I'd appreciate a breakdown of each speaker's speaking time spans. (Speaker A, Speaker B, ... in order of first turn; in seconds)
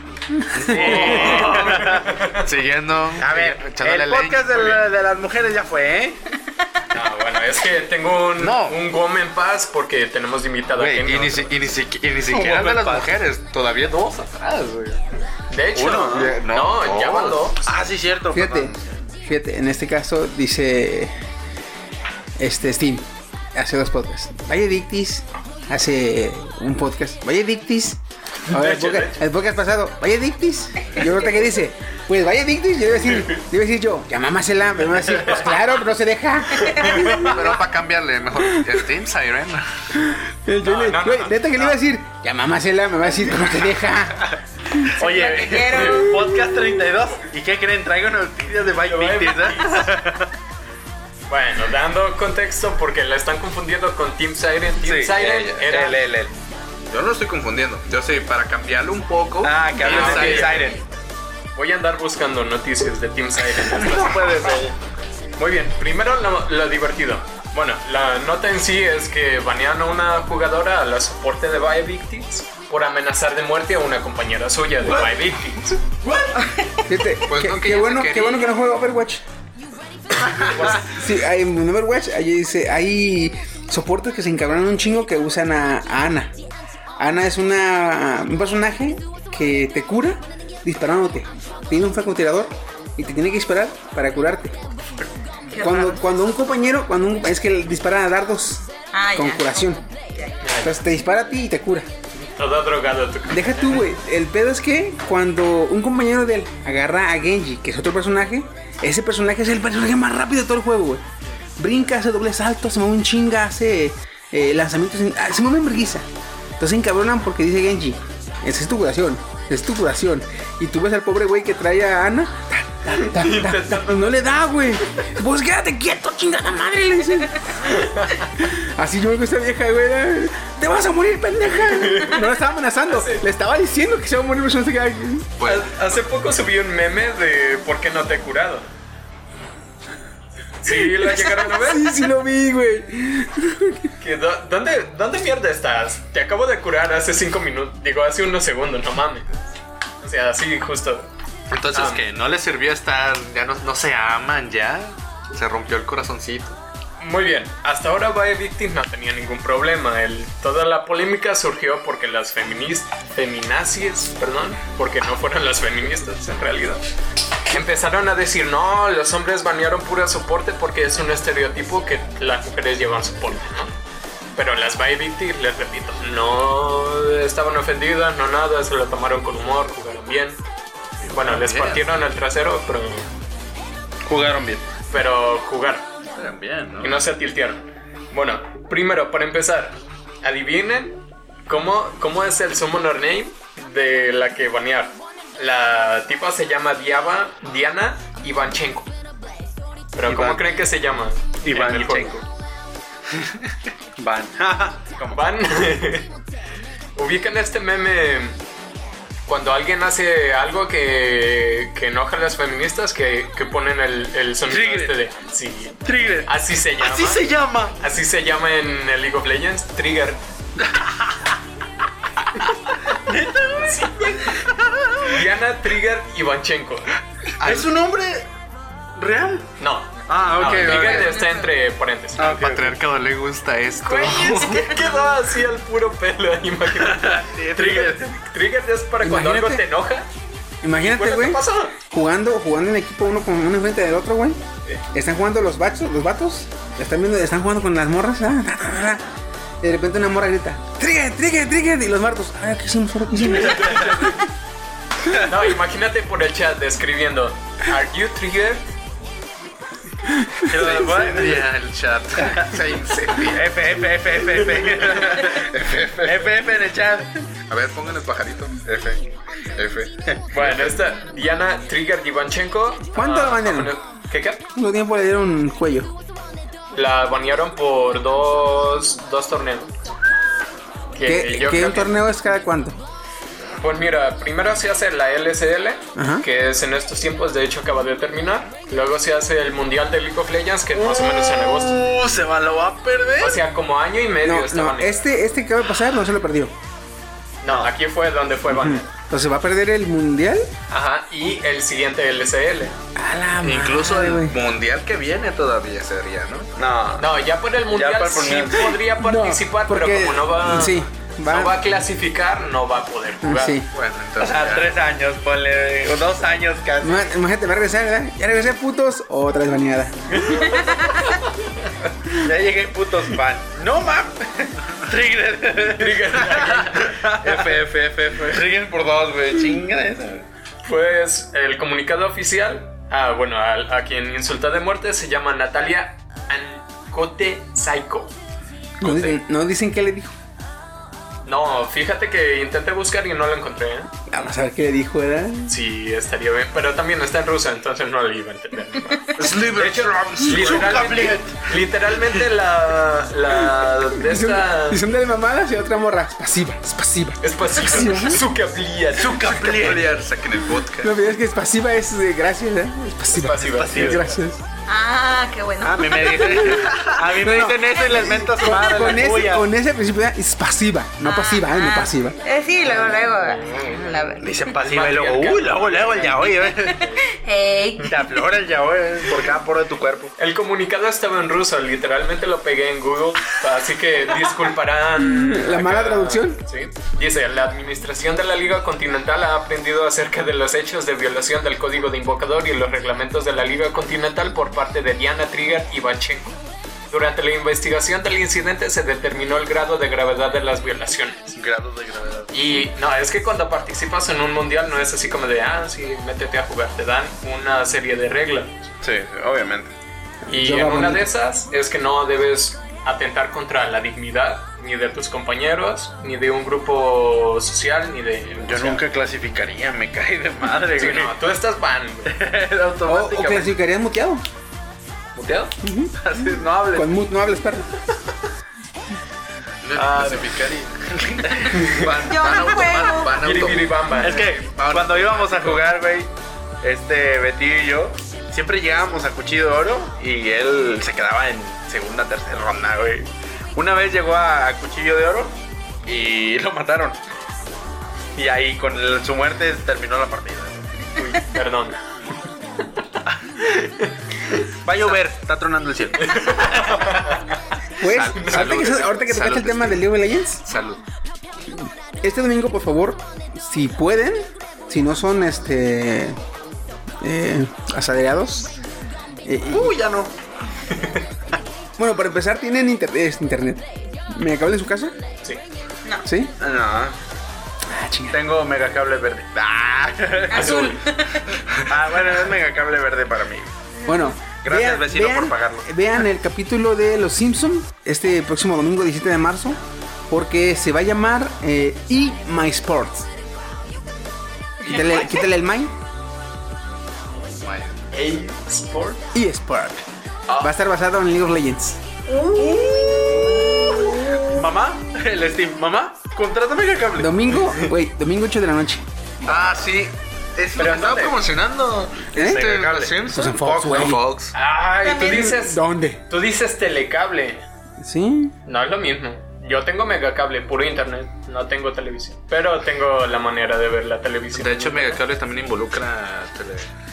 Speaker A: 0.3-0.8, 18.3-18.7, 19.3-21.1, 22.4-37.3, 40.0-44.3, 76.9-79.2, 80.7-86.4, 87.0-94.6, 95.6-99.8, 100.5-101.9, 103.3-111.0, 111.6-116.1, 116.6-127.5, 128.4-135.3, 140.7-143.9, 239.0-239.7, 240.6-244.4, 244.9-249.0, 249.6-254.2, 272.9-273.8, 274.6-275.9, 281.1-282.8, 286.0-286.3, 294.2-296.5, 298.5-300.5, 302.9-304.4, 309.0-311.6, 313.2-313.7, 316.8-320.2, 338.8-340.1, 344.1-345.6, 353.9-358.2, 360.8-364.4, 366.2-372.2, 384.9-386.4, 410.3-411.1, 422.9-424.2, 425.6-426.0, 426.7-427.7, 457.8-460.4, 461.5-466.2, 467.0-468.6, 469.2-469.8, 471.8-474.9, 476.1-476.3, 477.7-478.2, 483.9-493.1, 494.7-495.7, 499.1-499.8, 500.4-501.8, 507.0-508.9, 512.1-512.5, 513.1-514.0, 515.0-516.0, 517.8-518.4
Speaker B: 0.6-4.8, 8.4-8.8, 10.8-15.0, 15.8-17.5, 37.1-39.7, 56.9-60.8, 77.3-78.5, 135.4-135.7, 151.5-156.6, 181.0-181.8, 186.2-187.0, 227.4-227.7, 232.2-234.8, 260.6-263.5, 265.3-266.3, 267.5-269.0, 269.6-269.9, 303.4-306.5, 313.7-314.7, 327.3-328.2, 349.2-350.8, 359.4-360.9, 429.6-435.6, 457.8-459.9, 460.5-460.8, 497.4-497.8, 509.3-514.3, 524.3-526.7
Speaker C: 0.7-2.1, 3.2-6.2, 12.3-13.1, 15.8-16.4, 17.6-18.8, 45.0-50.3, 54.8-56.3, 59.4-60.8, 63.6-64.8, 76.0-76.3, 184.0-184.7, 200.1-200.4, 201.4-202.2, 204.0-205.2, 214.5-214.9, 215.8-217.8, 220.6-221.2, 223.1-225.1, 227.4-228.2, 229.0-229.5, 230.1-231.2, 236.8-238.1, 253.5-253.9, 260.5-261.5, 263.3-267.2, 290.8-293.4, 297.5-297.7, 306.6-307.2, 307.7-308.7, 314.2-317.1, 322.1-330.3, 350.1-351.4, 358.9-360.0, 363.5-364.0, 365.6-369.5, 374.2-376.9, 377.9-380.1, 401.4-402.5, 408.8-409.7, 418.4-421.1, 422.1-423.6, 426.0-426.9, 429.8-430.3, 430.9-431.8, 434.0-436.1, 436.6-445.3, 445.9-447.0, 448.2-450.6, 454.6-456.8, 469.5-470.1, 476.4-477.0, 478.1-480.7, 481.6-483.5, 484.4-485.7, 502.4-507.2, 512.2-514.0
Speaker D: 0.8-2.5, 6.9-11.6, 15.5-17.6, 28.5-29.2, 36.8-37.3, 40.6-41.8, 45.0-46.1, 48.8-49.9, 51.3-56.0, 59.8-60.7, 61.5-64.5, 65.4-75.8, 80.3-80.8, 100.4-100.8, 102.2-103.8, 122.9-124.2, 127.6-128.3, 131.5-132.3, 132.9-133.2, 135.4-138.7, 140.6-141.9, 144.0-149.3, 150.0-151.1, 151.7-152.0, 157.0-166.8, 167.5-173.7, 174.4-180.4, 181.1-183.1, 184.9-185.9, 186.8-198.9, 199.9-202.2, 205.1-206.1, 207.0-208.4, 209.3-217.2, 217.8-220.2, 223.6-224.3, 225.0-226.9, 229.6-232.8, 233.8-240.1, 240.8-241.8, 253.4-254.2, 255.1-258.7, 270.3-274.4, 276.7-279.9, 280.9-281.9, 283.6-291.8, 293.2-295.0, 297.4-298.9, 300.7-302.8, 307.0-313.6, 320.1-320.5, 325.8-327.4, 330.6-338.1, 338.8-339.2, 341.3-343.9, 345.5-354.8, 357.2-359.7, 363.1-364.2, 373.0-373.8, 374.6-377.1, 380.2-396.4, 396.9-401.4, 402.3-408.7, 410.3-418.8, 420.8-422.1, 425.1-425.5, 431.5-431.8, 433.1-434.3, 451.0-451.8, 453.6-453.9, 456.0-457.4, 458.1-458.7, 470.7-471.0, 480.3-480.8, 497.9-499.0, 510.6-511.2, 514.3-517.4, 518.5-525.0
Speaker E: 36.7-37.0, 45.0-46.2, 95.5-96.0, 98.9-100.4, 230.7-231.5, 320.3-321.0, 364.7-366.5, 367.9-368.6, 371.0-374.5, 377.1-378.2, 432.0-433.2, 480.3-481.3, 483.8-484.1, 502.1-504.2, 514.8-515.4